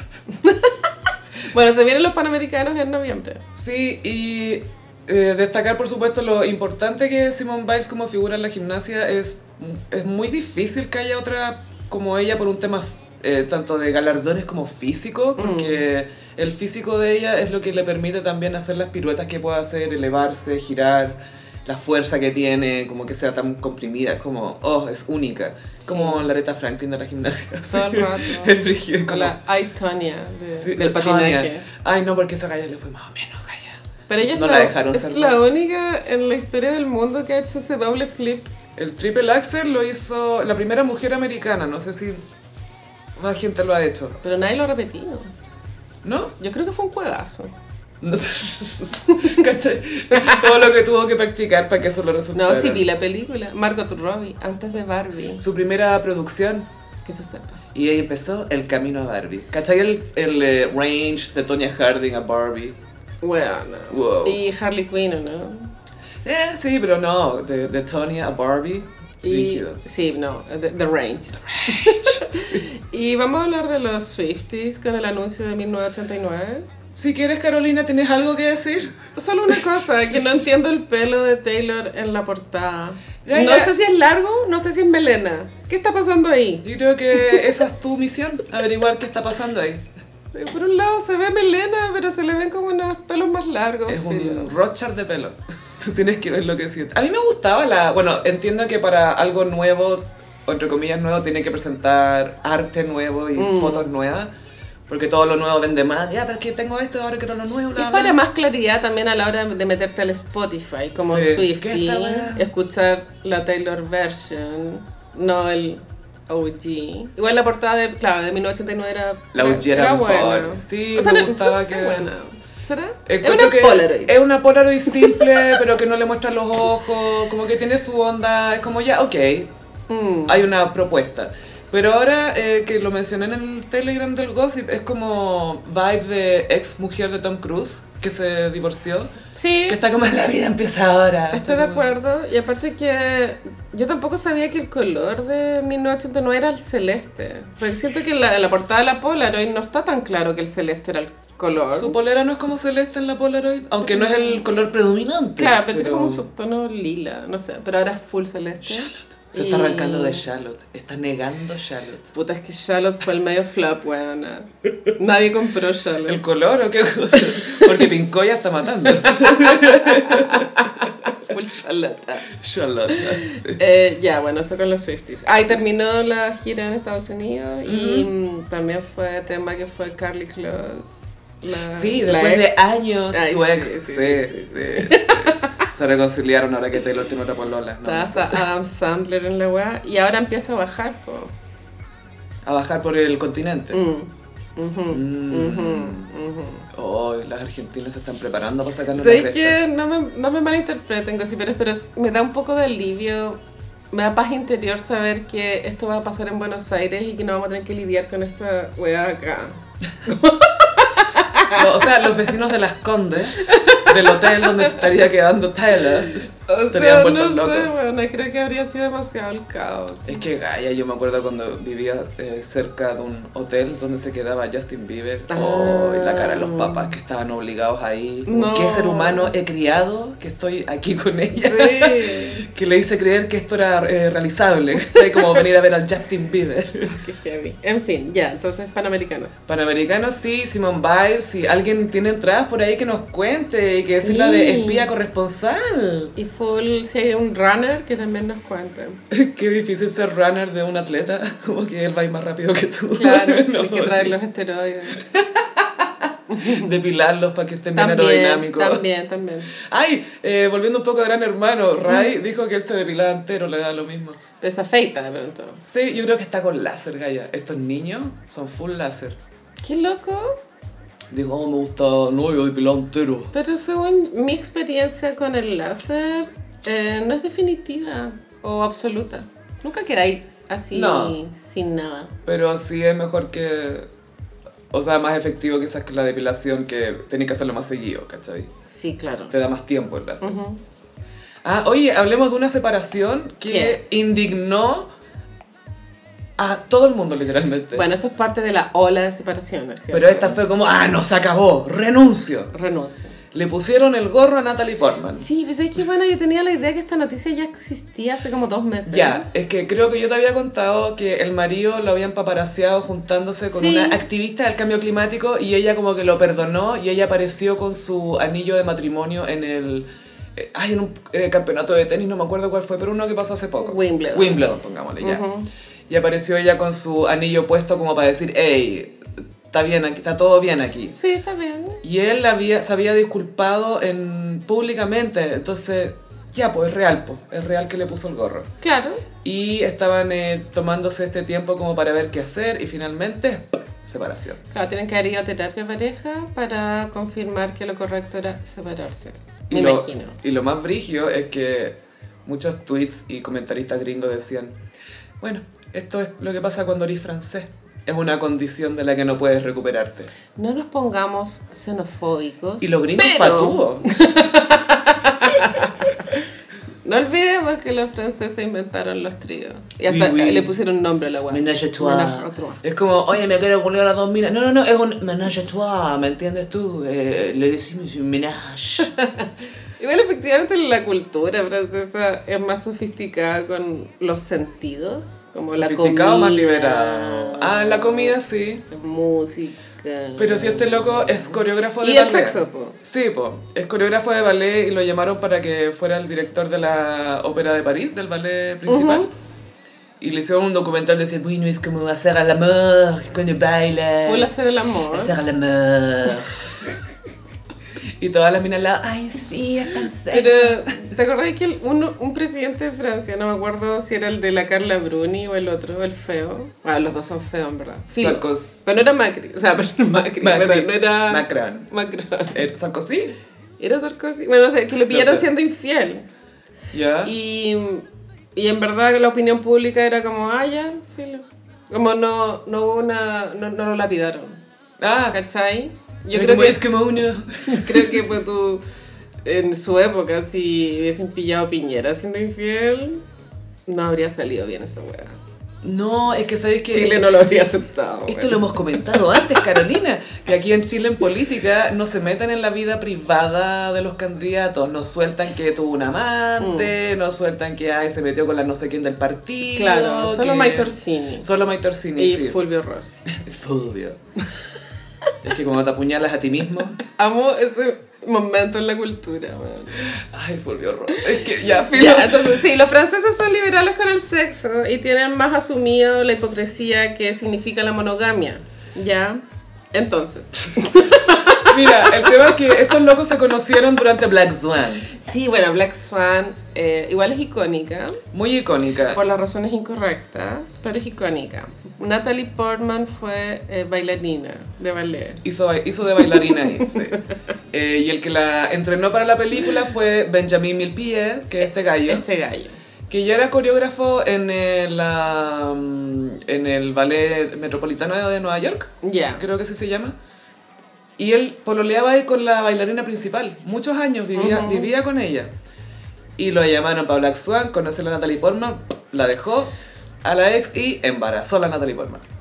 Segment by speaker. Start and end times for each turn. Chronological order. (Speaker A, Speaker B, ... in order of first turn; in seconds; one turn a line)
Speaker A: 0.3-3.4
Speaker B: 3.5-29.4
Speaker A: 15.4-15.8
Speaker A: 25.9-26.3
Speaker A: 27.7-31.7
Speaker B: 30.5-35.4
Speaker A: 34.1-38.5
Speaker B: 38.8-42.2
Speaker B: 43.2-44.2
Speaker A: 44.2-45.3
Speaker B: 46.0-46.4
Speaker A: 46.4-47.5
Speaker B: 48.0-52.9
Speaker A: 49.1-49.4
Speaker A: 50.1-50.5
Speaker A: 52.3-55.4
Speaker B: 55.4-56.7
Speaker A: 57.0-57.6
Speaker B: 57.7-62.8
Speaker A: 63.2-65.7
Speaker B: 63.9-64.4
Speaker B: 66.2-69.8
Speaker A: 69.2-76.7
Speaker B: 71.5-72.6
Speaker B: 77.0-79.0
Speaker A: 79.2-87.5
Speaker B: 83.2-83.7
Speaker B: 86.6-89.8
Speaker A: 90.3-94.5
Speaker B: 93.9-104.3
Speaker A: 103.4-103.9
Speaker B: 104.9-108.2
Speaker A: 107.8-124.1
Speaker B: 111.0-112.5
Speaker B: 119.3-122.1
Speaker B: 123.1-129.5
Speaker A: 124.9-125.6
Speaker A: 129.9-130.5
Speaker B: 130.3-139.1
Speaker A: 139.3-139.8
Speaker B: 139.7-141.9
Speaker A: 141.3-152.0
Speaker B: 151.5-156.2
Speaker A: 153.8-154.5
Speaker A: 155.4-160.3
Speaker B: 158.6-162.1
Speaker A: 162.1-166.2
Speaker B: 166.1-170.9
Speaker A: 169.0-172.3
Speaker B: 172.3-173.6
Speaker A: 172.9-185.7
Speaker B: 177.7-178.1
Speaker B: 181.7-188.5
Speaker A: 187.8-191.3
Speaker B: 192.4-193.8
Speaker A: 193.7-196.7
Speaker B: 194.9-196.1
Speaker B: 196.7-199.6
Speaker A: 198.9-203.4
Speaker A: 203.9-211.8
Speaker B: 211.5-217.7
Speaker A: 213.4-214.9
Speaker A: 216.1-220.2
Speaker B: 220.1-237.0
Speaker A: 225.3-226.9
Speaker A: 228.3-229.3
Speaker A: 231.4-232.5
Speaker A: 234.9-235.2
Speaker A: 236.9-239.4
Speaker B: 239.5-246.1
Speaker A: 243.9-244.9
Speaker A: 246.2-249.0
Speaker B: 249.1-254.1
Speaker A: 252.9-255.0
Speaker B: 254.9-258.9
Speaker A: 256.3-256.7
Speaker A: 257.8-259.5
Speaker B: 259.6-264.2
Speaker A: 264.4-265.6
Speaker B: 265.6-269.2
Speaker A: 269.6-270.4
Speaker B: 271.1-273.3
Speaker A: 273.3-282.1
Speaker B: 280.7-281.2
Speaker B: 282.3-283.9
Speaker B: 284.7-288.5
Speaker A: 288.7-289.3
Speaker B: 289.3-290.3
Speaker A: 290.2-290.6
Speaker B: 291.4-294.9
Speaker A: 293.5-293.8
Speaker B: 296.4-297.9
Speaker A: 297.7-300.4
Speaker B: 299.9-302.5
Speaker A: 302.5-303.2
Speaker B: 303.3-305.3
Speaker A: 305.1-309.3
Speaker B: 308.9-325.2
Speaker A: 313.5-314.0
Speaker A: 323.6-324.5
Speaker A: 325.0-325.5
Speaker B: 325.9-330.9
Speaker A: 330.9-331.8
Speaker B: 331.8-338.5
Speaker A: 338.6-339.1
Speaker B: 339.2-344.4
Speaker A: 344.5-350.2
Speaker B: 349.5-354.6
Speaker B: 355.2-360.1
Speaker A: 360.4-366.3
Speaker B: 362.6-363.9
Speaker A: 366.8-372.6
Speaker B: 369.9-370.5
Speaker B: 371.3-378.9
Speaker A: 378.8-388.2
Speaker B: 385.5-388.6
Speaker A: 388.7-392.8
Speaker B: 390.2-399.1
Speaker A: 398.7-399.1
Speaker B: 400.0-404.3
Speaker A: 404.0-405.2
Speaker B: 404.9-406.4
Speaker B: 408.0-410.6
Speaker A: 410.1-422.4
Speaker B: 418.0-418.6
Speaker B: 420.2-421.7
Speaker B: 422.3-423.2
Speaker A: 423.6-426.1
Speaker B: 424.9-425.3
Speaker B: 426.7-427.1
Speaker A: 427.0-434.4
Speaker B: 434.8-435.2
Speaker A: 435.1-436.6
Speaker B: 436.1-438.1
Speaker A: 437.5-438.6
Speaker A: 439.2-443.0
Speaker A: 443.7-445.2
Speaker B: 445.6-447.1
Speaker A: 446.7-449.4
Speaker B: 448.1-462.4
Speaker A: 456.4-456.7
Speaker A: 459.6-461.3
Speaker A: 462.0-463.0
Speaker B: 463.1-464.0
Speaker B: 465.2-466.8
Speaker A: 466.9-469.9
Speaker B: 469.8-472.4
Speaker A: 471.6-479.2
Speaker A: 479.7-482.3
Speaker B: 481.4-484.9
Speaker A: 484.9-488.0
Speaker B: 488.1-489.0
Speaker A: 488.9-495.2
Speaker B: 495.2-497.0
Speaker A: 496.0-496.7
Speaker B: 497.5-502.1
Speaker A: 501.9-502.6
Speaker B: 502.9-509.9
Speaker A: 508.8-509.2
Speaker B: 511.0-515.3
Speaker A: 514.1-514.7
Speaker B: 516.2-519.5
Speaker B: 520.0-522.0